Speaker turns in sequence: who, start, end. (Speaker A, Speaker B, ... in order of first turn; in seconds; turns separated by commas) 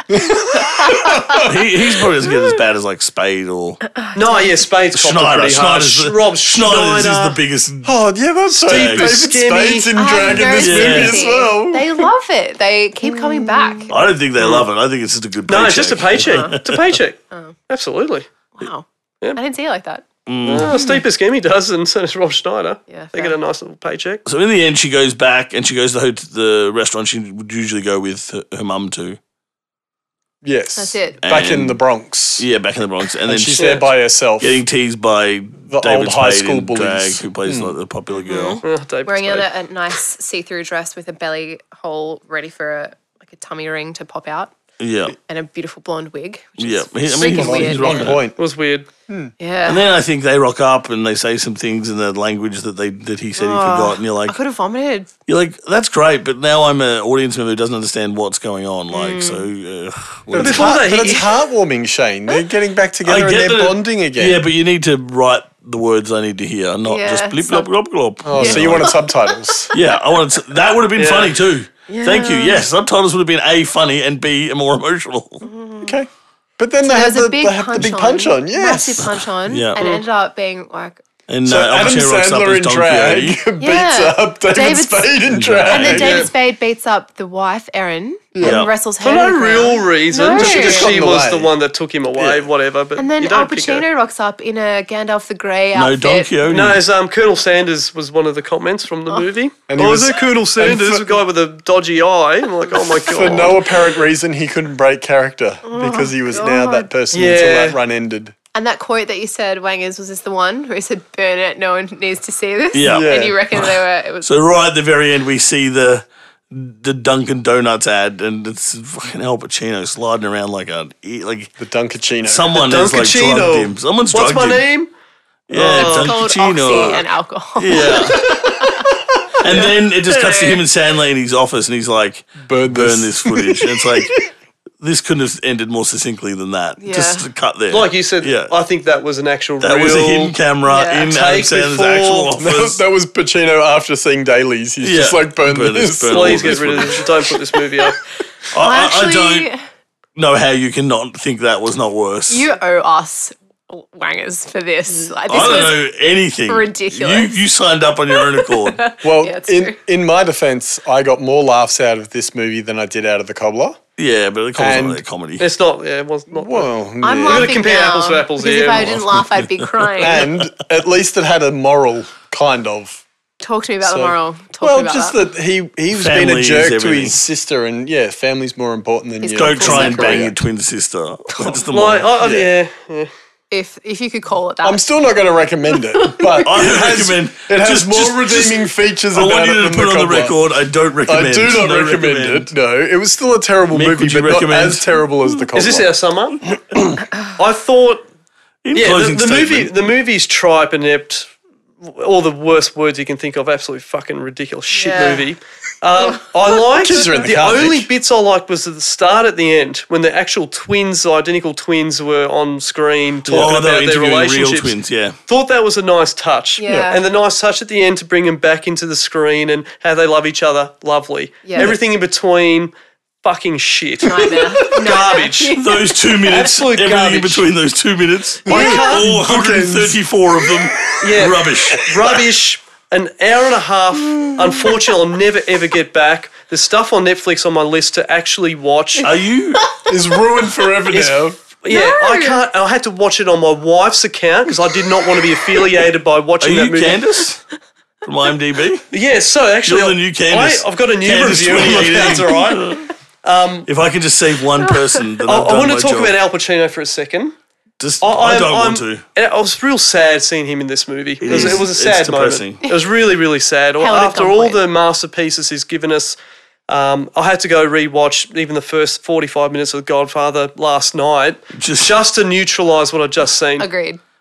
Speaker A: 0.1-1.6, Speaker B: 0.7-1.4, Speaker C: 1.3-3.8, Speaker B: 3.9-4.6, Speaker D: 4.1-7.4, Speaker C: 4.9-7.9, Speaker A: 7.8-12.1, Speaker D: 8.5-10.0, Speaker C: 8.7-9.2, Speaker B: 9.9-13.9, Speaker C: 10.6-11.3, Speaker A: 13.1-13.8, Speaker C: 13.9-17.0, Speaker D: 14.4-14.7, Speaker D: 15.5-18.3, Speaker B: 16.2-16.6, Speaker B: 18.6-20.0, Speaker C: 20.3-20.8, Speaker D: 20.4-24.2, Speaker B: 20.6-21.0, Speaker B: 22.9-23.3, Speaker C: 24.2-29.2, Speaker A: 30.4-32.4, Speaker B: 30.8-31.2, Speaker C: 31.2-31.8, Speaker C: 32.4-38.6, Speaker A: 33.2-34.6, Speaker D: 33.5-33.8, Speaker A: 35.7-37.7, Speaker B: 38.2-44.5, Speaker D: 38.6-39.5, Speaker C: 44.8-45.1, Speaker B: 45.2-48.2, Speaker C: 46.6-48.2, Speaker A: 47.2-48.4, Speaker D: 48.4-48.9, Speaker A: 49.1-49.3, Speaker B: 49.4-49.8, Speaker C: 49.6-54.4, Speaker B: 53.4-55.1, Speaker C: 55.3-60.8, Speaker B: 58.9-59.5, Speaker A: 60.3-64.4, Speaker D: 60.4-61.3, Speaker C: 63.0-68.9, Speaker B: 66.9-67.7, Speaker A: 68.2-69.7, Speaker B: 68.3-69.8, Speaker C: 69.7-75.5, Speaker D: 71.0-71.4, Speaker B: 71.9-72.6, Speaker B: 75.4-76.0, Speaker A: 75.8-79.1, Speaker B: 76.8-81.0, Speaker C: 79.5-79.8, Speaker D: 79.8-80.0, Speaker C: 81.3-83.4, Speaker A: 81.4-86.3, Speaker B: 83.6-85.1, Speaker C: 85.3-86.2, Speaker B: 85.7-91.0, Speaker A: 88.3-88.6, Speaker C: 88.4-88.7, Speaker D: 89.0-93.8, Speaker A: 90.3-91.5, Speaker A: 92.2-92.4, Speaker B: 93.0-96.3, Speaker C: 95.7-96.8, Speaker D: 96.4-103.8, Speaker A: 99.7-101.2, Speaker A: 103.0-108.3, Speaker B: 105.6-106.9, Speaker D: 107.1-107.8, Speaker B: 108.5-114.3, Speaker C: 112.7-121.5, Speaker A: 112.8-113.4, Speaker A: 121.6-122.6, Speaker C: 122.2-124.6, Speaker D: 122.5-124.9, Speaker C: 125.5-128.5, Speaker D: 125.5-126.9, Speaker B: 125.7-128.9, Speaker C: 129.4-134.2, Speaker B: 130.1-130.6, Speaker A: 132.4-134.1, Speaker C: 134.8-138.5, Speaker B: 136.8-137.3, Speaker D: 137.7-140.3, Speaker C: 139.6-142.8, Speaker B: 140.6-141.1, Speaker D: 141.1-142.3, Speaker A: 142.4-147.0, Speaker C: 144.8-147.1, Speaker D: 146.1-148.0, Speaker C: 148.5-149.5, Speaker B: 148.5-149.6, Speaker C: 150.2-152.5, Speaker B: 152.3-155.8, Speaker C: 155.3-158.8, Speaker B: 156.4-157.4, Speaker B: 158.1-159.8, Speaker A: 159.0-163.8, Speaker C: 164.0-165.5, Speaker A: 164.5-165.0, Speaker D: 165.4-166.7, Speaker A: 166.3-167.6, Speaker B: 167.0-170.3, Speaker D: 167.2-169.0, Speaker C: 168.8-170.4, Speaker A: 170.0-173.0, Speaker B: 173.4-175.2, Speaker A: 173.8-180.3, Speaker C: 175.9-177.2, Speaker B: 179.2-180.3, Speaker C: 179.3-182.1, Speaker B: 181.3-181.6, Speaker D: 181.7-183.1, Speaker A: 182.2-182.5, Speaker B: 183.5-184.8, Speaker A: 184.6-190.3, Speaker B: 186.0-186.4, Speaker C: 186.4-192.5, Speaker A: 191.1-195.9, Speaker C: 193.7-195.4, Speaker D: 195.5-196.6, Speaker D: 197.3-198.0, Speaker C: 198.6-199.7, Speaker D: 198.7-201.3, Speaker D: 201.8-214.7, Speaker B: 204.7-205.2, Speaker A: 206.5-207.9, Speaker C: 213.3-215.2, Speaker D: 215.3-225.6, Speaker B: 216.6-217.0, Speaker A: 216.7-216.9, Speaker B: 221.4-221.7, Speaker B: 224.0-225.9, Speaker C: 225.5-232.2, Speaker D: 226.2-227.4, Speaker A: 228.4-230.0, Speaker D: 228.5-229.1, Speaker D: 231.0-239.1, Speaker C: 239.0-239.7, Speaker A: 239.9-241.4, Speaker D: 240.9-247.1, Speaker B: 241.7-242.4, Speaker C: 246.4-247.4, Speaker C: 248.0-248.9, Speaker D: 248.9-253.7, Speaker C: 249.6-252.9, Speaker C: 253.7-256.1, Speaker D: 255.2-257.3, Speaker C: 257.8-259.0, Speaker D: 258.0-266.1, Speaker C: 261.2-262.6, Speaker A: 261.3-261.6, Speaker B: 263.8-264.6, Speaker D: 266.7-273.7, Speaker C: 271.6-272.0, Speaker B: 273.6-274.0